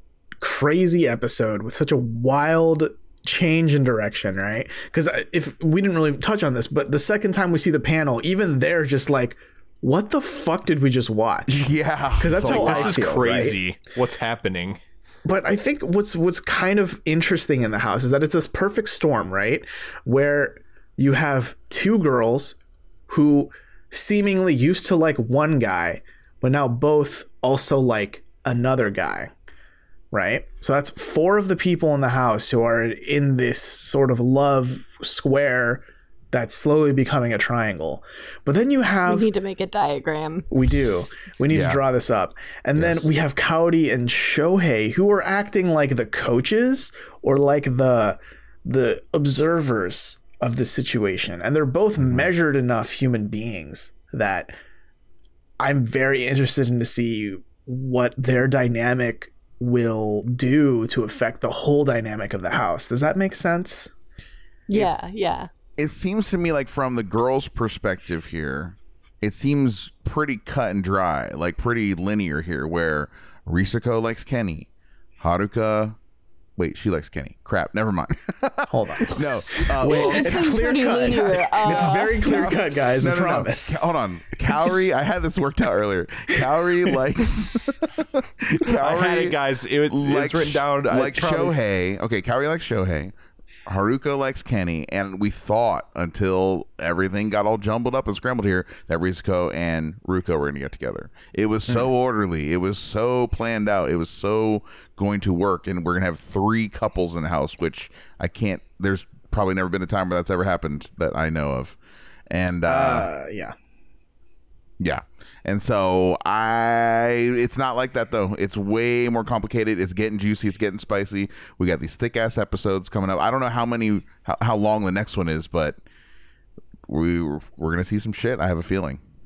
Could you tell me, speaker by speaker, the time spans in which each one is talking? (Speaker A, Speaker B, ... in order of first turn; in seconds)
Speaker A: 0.4-13.6, 15.3-22.6, 23.1-29.3, 30.1-39.3, 40.5-54.5, 55.6-63.9, 78.7-83.8, 112.7-113.5
Speaker B: 11.5-13.2, 41.5-41.8, 42.8-43.1, 52.0-52.3, 65.8-74.7, 75.2-76.0, 76.6-80.6, 81.7-89.4, 89.9-93.1, 93.7-111.8, 112.3-113.1, 114.8-125.8, 126.9-129.0
Speaker C: 12.4-14.8, 88.7-91.6
Speaker D: 39.1-40.5, 64.7-65.5, 79.1-82.6